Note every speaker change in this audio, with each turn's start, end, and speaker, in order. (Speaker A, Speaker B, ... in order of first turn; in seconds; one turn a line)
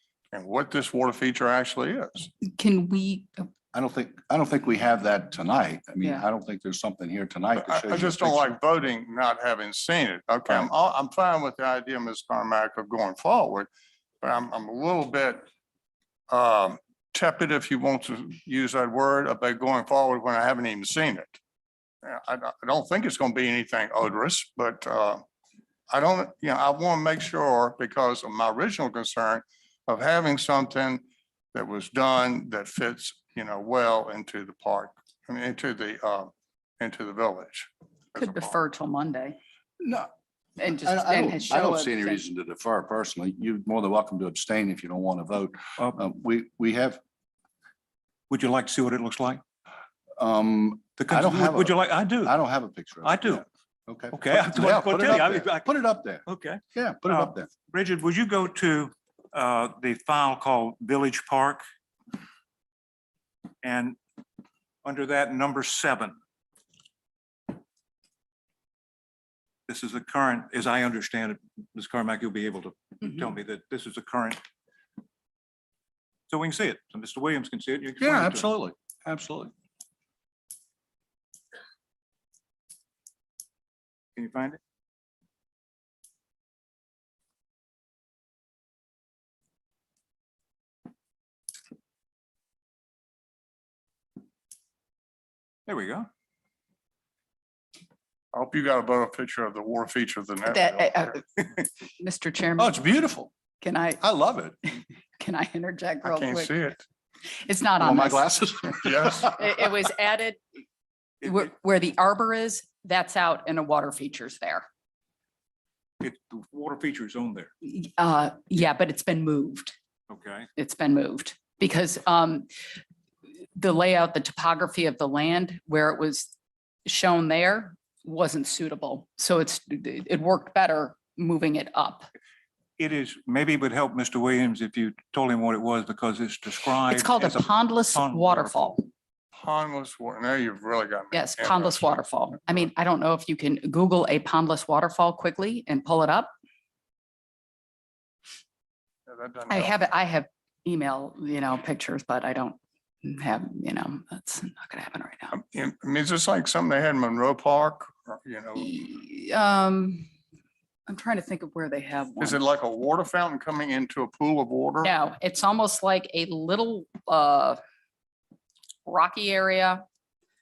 Speaker A: 0.3-2.3
Speaker B: 2.4-3.5
Speaker C: 3.7-8.5
Speaker A: 7.6-13.7
Speaker A: 14.2-15.4
Speaker A: 16.3-21.4
Speaker A: 22.0-25.2
Speaker A: 25.9-31.0
Speaker A: 31.5-38.6
Speaker B: 38.1-39.4
Speaker C: 39.8-40.1
Speaker B: 40.6-42.2
Speaker C: 40.8-47.0
Speaker D: 48.3-49.4
Speaker C: 50.2-57.5
Speaker D: 51.0-52.3
Speaker D: 53.0-53.4
Speaker D: 54.1-55.7
Speaker D: 56.2-61.6
Speaker D: 63.6-64.0
Speaker D: 64.8-66.2
Speaker D: 69.7-74.4
Speaker D: 76.3-78.5
Speaker C: 78.0-79.5
Speaker D: 84.2-84.6
Speaker D: 95.7-96.1
Speaker A: 98.3-101.1
Speaker B: 100.5-102.8
Speaker C: 102.6-103.3
Speaker B: 103.6-104.0
Speaker C: 104.0-104.6
Speaker B: 104.7-106.6
Speaker A: 106.0-106.8
Speaker B: 107.4-108.3
Speaker C: 107.8-109.5
Speaker A: 108.8-109.3
Speaker B: 109.2-110.4
Speaker B: 111.2-114.7
Speaker D: 116.0-117.5
Speaker B: 117.6-119.7
Speaker D: 120.1-120.5
Speaker B: 120.5-122.5
Speaker B: 123.5-126.3
Speaker B: 126.8-132.1
Speaker D: 132.8-138.8
Speaker B: 136.9-138.8
Speaker A: 139.3-142.4
Speaker B: 141.1-146.3
Speaker A: 149.1-149.7
Speaker B: 149.5-155.3
Speaker A: 155.3-158.7
Speaker B: 158.6-160.1
Speaker B: 160.9-162.4
Speaker A: 162.2-164.9
Speaker B: 164.8-167.6
Speaker B: 168.8-169.8